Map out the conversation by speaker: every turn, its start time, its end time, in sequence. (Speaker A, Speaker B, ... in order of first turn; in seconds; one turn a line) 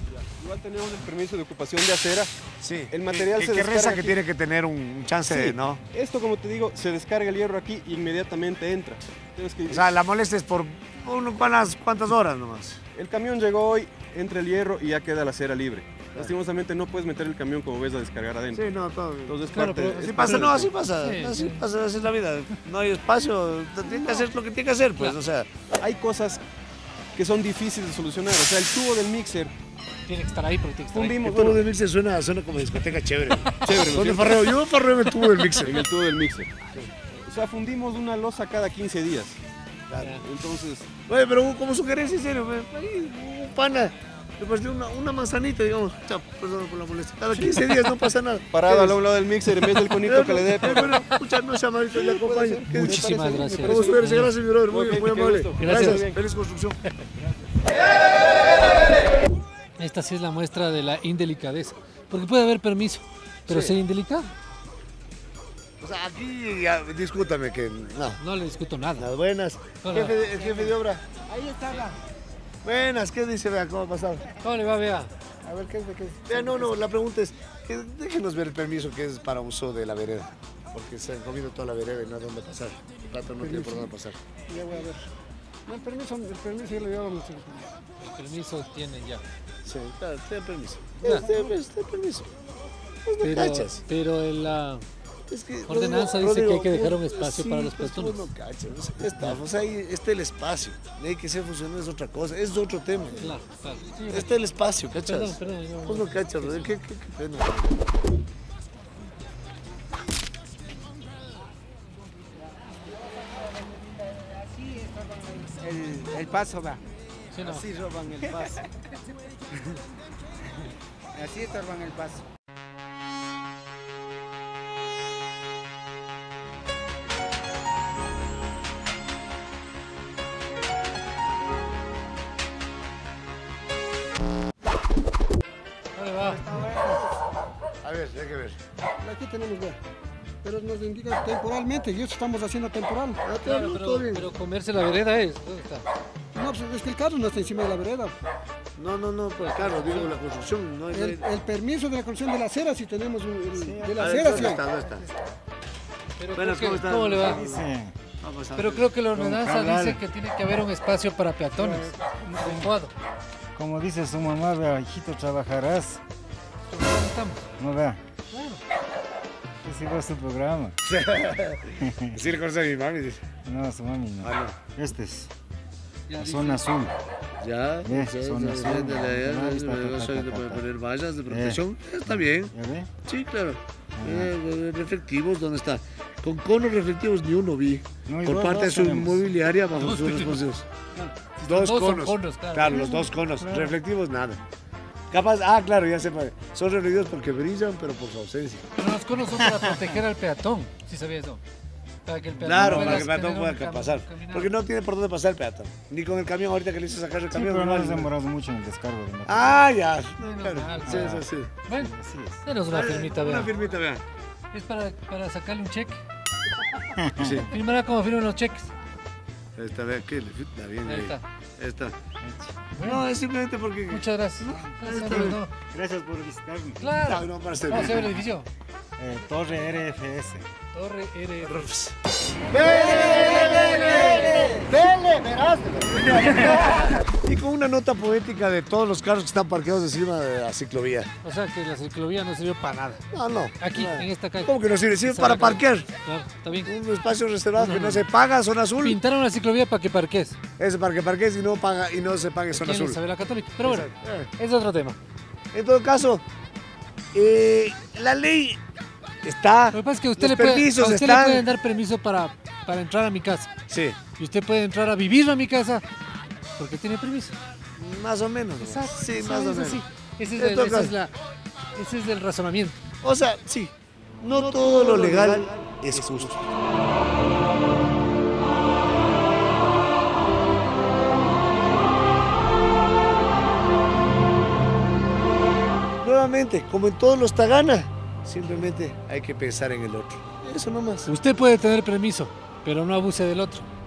Speaker A: 0.4-2.3
Speaker B: 2.6-5.8
Speaker A: 2.9-4.2
Speaker A: 5.3-9.9
Speaker B: 9.7-12.8
Speaker A: 12.9-18.7
Speaker B: 18.5-25.5
Speaker A: 19.3-20.7
Speaker C: 19.5-21.6
Speaker C: 23.9-24.2
Speaker A: 25.8-26.4
Speaker A: 27.1-29.5
Speaker C: 30.1-31.2
Speaker A: 30.9-31.6
Speaker B: 31.2-35.8
Speaker A: 33.6-34.6
Speaker A: 35.6-36.5
Speaker A: 37.1-39.4
Speaker B: 39.9-40.1
Speaker A: 40.2-40.9
Speaker B: 41.0-49.0
Speaker A: 48.5-51.0
Speaker B: 50.0-56.8
Speaker A: 52.0-54.1
Speaker C: 52.7-54.3
Speaker A: 54.7-56.2
Speaker C: 55.6-56.0
Speaker C: 59.8-64.3
Speaker B: 63.5-63.7
Speaker B: 65.8-68.2
Speaker C: 68.2-69.1
Speaker B: 69.0-71.0
Speaker C: 69.8-70.2
Speaker B: 72.6-74.2
Speaker C: 74.4-75.1
Speaker D: 75.5-76.7
Speaker B: 76.2-84.2
Speaker D: 83.4-83.9
Speaker D: 84.5-85.1
Speaker D: 85.7-87.7
Speaker C: 88.0-89.2
Speaker B: 89.6-92.3
Speaker D: 91.1-91.5
Speaker B: 93.0-93.8
Speaker C: 93.2-94.8
Speaker B: 95.3-103.3
Speaker C: 95.7-98.3
Speaker C: 103.2-104.3
Speaker B: 104.1-107.9
Speaker C: 105.0-106.7
Speaker C: 117.3-117.7
Speaker C: 135.9-136.4
Speaker B: 136.2-137.1
Speaker B: 137.8-138.6
Speaker D: 139.0-139.8
Speaker D: 140.4-143.2
Speaker B: 143.2-144.3
Speaker C: 143.3-145.8
Speaker D: 146.3-148.2
Speaker B: 148.8-151.3
Speaker C: 149.4-150.1
Speaker D: 150.9-154.6
Speaker E: 153.5-154.6
Speaker B: 153.9-155.1
Speaker C: 156.2-157.4
Speaker B: 156.3-158.9
Speaker E: 157.3-158.0
Speaker C: 158.5-162.9
Speaker E: 159.1-160.0
Speaker E: 161.5-162.7
Speaker E: 163.5-166.0
Speaker C: 166.7-167.4
Speaker E: 167.6-168.0
Speaker C: 168.3-168.6
Speaker E: 169.6-170.8
Speaker B: 170.8-173.3
Speaker E: 171.8-172.2
Speaker E: 173.4-175.3
Speaker B: 174.2-174.6
Speaker C: 176.1-176.6
Speaker E: 176.2-176.9
Speaker B: 177.4-190.7
Speaker E: 177.8-180.6
Speaker E: 181.3-181.6
Speaker E: 182.1-182.9
Speaker E: 184.0-184.3
Speaker E: 188.1-189.2
Speaker C: 189.8-190.4
Speaker C: 190.9-193.0
Speaker B: 191.4-194.4
Speaker E: 192.7-193.7
Speaker B: 195.1-198.6
Speaker C: 198.8-201.4
Speaker C: 202.0-204.6
Speaker B: 202.4-208.1
Speaker E: 207.3-209.6
Speaker B: 209.2-211.6
Speaker C: 210.2-211.9
Speaker E: 210.9-212.4
Speaker C: 212.4-213.5
Speaker B: 212.7-214.0
Speaker C: 214.5-216.0
Speaker E: 216.9-217.4
Speaker B: 217.2-217.5
Speaker C: 217.3-218.7
Speaker B: 219.6-221.9
Speaker C: 220.8-221.2
Speaker E: 222.2-222.7
Speaker C: 222.7-223.0
Speaker B: 222.8-225.4
Speaker C: 223.9-225.5
Speaker E: 224.5-227.0
Speaker C: 226.8-228.5
Speaker B: 227.0-228.1
Speaker E: 229.0-230.4
Speaker C: 230.7-231.7
Speaker B: 231.4-231.9
Speaker B: 232.5-241.1
Speaker C: 233.6-234.1
Speaker C: 241.2-243.0
Speaker B: 243.1-245.9
Speaker C: 243.6-246.7
Speaker B: 246.6-249.0
Speaker C: 247.6-248.1
Speaker C: 248.8-250.4
Speaker B: 250.6-253.0
Speaker C: 252.5-255.0
Speaker B: 253.6-254.3
Speaker B: 255.5-256.2
Speaker B: 257.1-258.6
Speaker B: 259.2-261.4
Speaker C: 259.7-263.5
Speaker B: 263.7-264.0
Speaker C: 264.2-265.8
Speaker C: 266.6-267.4
Speaker B: 267.8-269.8
Speaker C: 268.6-271.1
Speaker B: 270.3-270.9
Speaker C: 271.7-272.8
Speaker B: 273.0-276.4
Speaker B: 286.0-291.1
Speaker C: 291.0-293.7